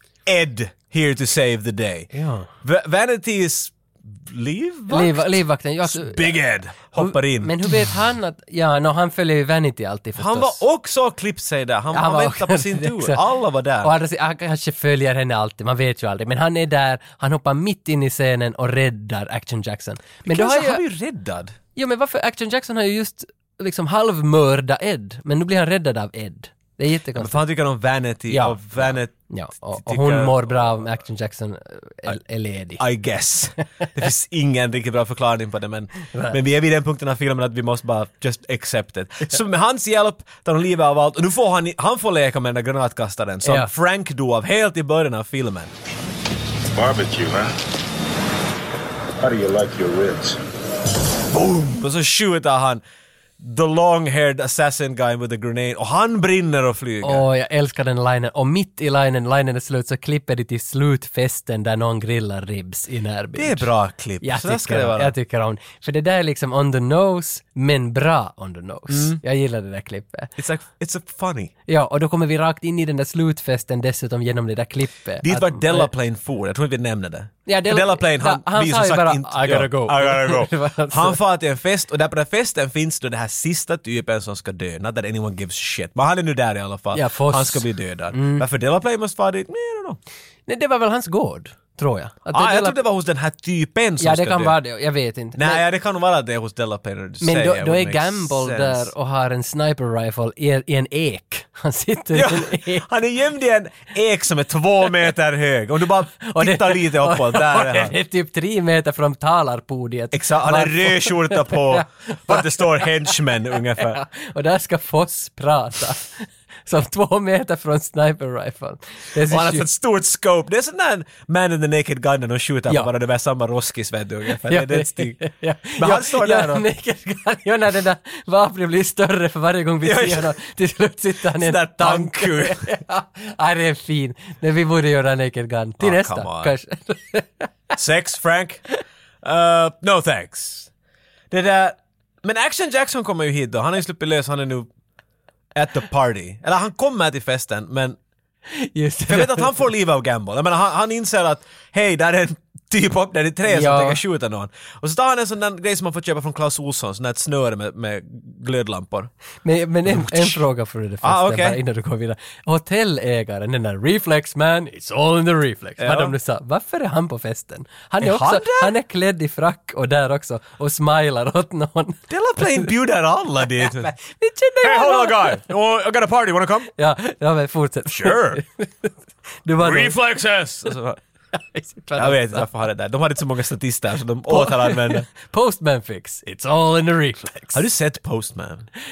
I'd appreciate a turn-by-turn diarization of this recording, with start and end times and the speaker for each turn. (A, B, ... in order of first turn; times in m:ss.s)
0:00.3-0:07.9 A
0:02.1-0:02.5 B
0:04.9-0:06.4 B
0:06.9-0:10.6 B
0:10.2-0:13.9 A
0:11.9-0:13.2 B
0:13.8-0:20.8 B
0:20.3-0:21.6 A
0:21.8-0:27.4 B
0:27.2-0:29.2 A
0:28.3-0:28.6 B
0:29.2-0:32.8 B
0:29.8-0:30.9 A
0:32.8-0:45.7 A
0:36.1-0:36.4 B
0:43.4-0:43.7 B
0:46.8-0:47.5 C
0:49.2-0:50.4 C
0:51.3-0:52.8 A
0:53.4-0:57.2 A
0:57.0-1:03.7 B
1:03.4-1:05.1 A
1:04.2-1:10.3 B
1:08.9-1:09.2 A
1:10.4-1:11.5 A
1:11.7-1:15.9 B
1:15.2-1:30.0 A
1:17.5-1:21.2 B
1:26.9-1:28.5 B
1:30.5-1:32.8 B
1:32.3-1:34.6 A
1:34.0-1:35.6 B
1:35.4-1:38.9 A
1:37.2-1:42.9 B
1:42.1-1:47.9 A
1:46.3-1:53.1 B
1:50.1-1:54.0 A
1:53.7-1:59.7 B
1:59.2-2:05.2 A
2:04.4-2:17.7 B
2:05.8-2:06.6 A
2:09.8-2:10.4 A
2:11.3-2:12.8 A
2:15.8-2:16.5 A
2:17.7-2:18.6 A
2:19.2-2:20.7 A
2:21.3-2:24.7 A
2:25.5-2:28.0 A
2:28.5-2:29.5 B
2:29.1-2:39.1 A
2:33.5-2:34.0 B
2:39.4-2:52.0 B
2:39.8-2:40.4 A
2:41.0-2:41.6 A
2:45.8-2:46.2 A
2:48.0-2:48.8 A
2:52.1-2:53.9 A
2:53.6-2:55.5 B
2:54.6-2:56.7 A
2:56.8-2:58.9 B
2:57.9-2:58.4 A
2:59.4-3:00.0 B
2:59.6-3:01.0 A
3:01.3-3:02.5 B
3:02.0-3:05.1 A
3:04.3-3:07.6 B
3:07.5-3:08.7 A